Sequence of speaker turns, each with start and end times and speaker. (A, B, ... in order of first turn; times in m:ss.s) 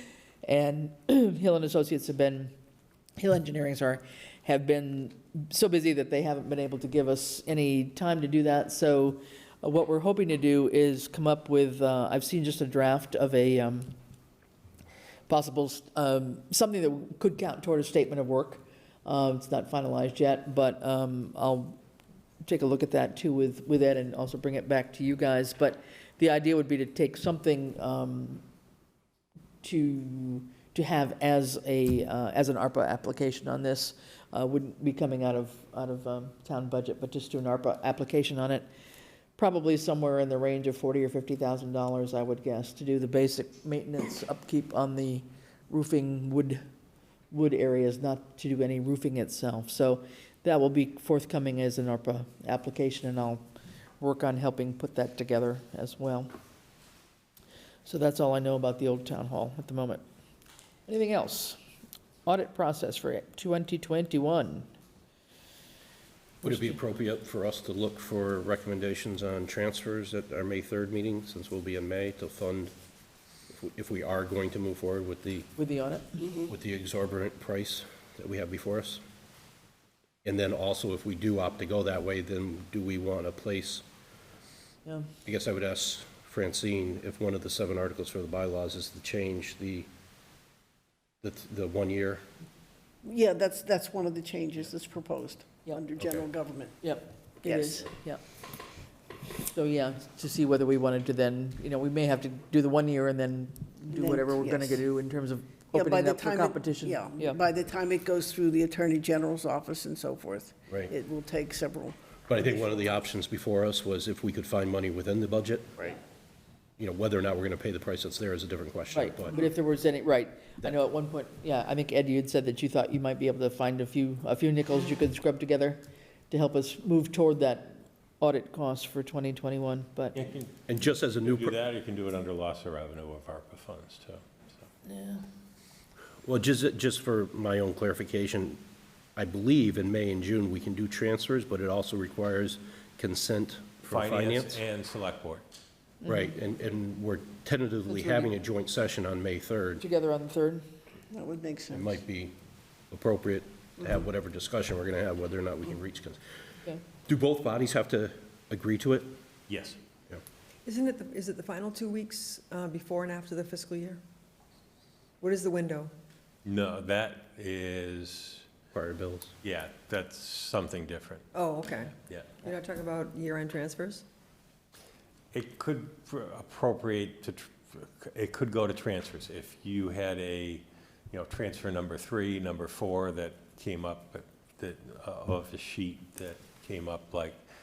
0:00.4-0:02.5 A
0:03.2-0:13.9 A
0:15.3-0:21.8 A
0:22.4-0:28.4 A
0:29.6-0:38.6 A
0:39.4-0:46.6 A
0:47.3-0:53.4 A
0:54.0-0:56.3 A
0:57.8-1:00.0 A
1:00.9-1:01.6 A
1:02.2-1:04.7 A
1:06.4-1:06.7 A
1:06.4-1:12.7 B
1:13.5-1:15.5 B
1:15.6-1:16.4 A
1:16.5-1:19.0 B
1:20.2-1:23.8 B
1:25.2-1:29.9 B
1:31.2-1:32.2 B
1:33.0-1:36.8 C
1:36.8-1:38.2 A
1:37.4-1:37.9 C
1:39.4-1:47.4 A
1:43.9-1:44.8 C
1:45.7-1:52.1 C
1:52.3-1:55.9 B
1:56.8-1:59.4 B
1:58.9-2:10.2 A
2:10.1-2:14.7 D
2:10.7-2:11.6 B
2:14.8-2:15.2 A
2:16.2-2:18.6 B
2:19.2-2:24.6 B
2:23.9-2:25.4 D
2:26.0-2:29.8 B
2:27.9-2:28.3 A
2:29.8-2:30.6 A
2:31.1-2:32.0 C
2:31.7-2:32.4 B
2:32.9-2:36.2 B
2:37.0-2:39.2 B
2:39.5-2:39.8 D
2:40.6-2:44.0 E
2:45.2-2:45.9 E
2:46.4-2:48.5 D
2:48.7-2:49.3 B
2:49.4-2:51.3 D
2:51.3-2:54.0 E
2:52.0-2:52.4 D
2:55.3-3:07.4 D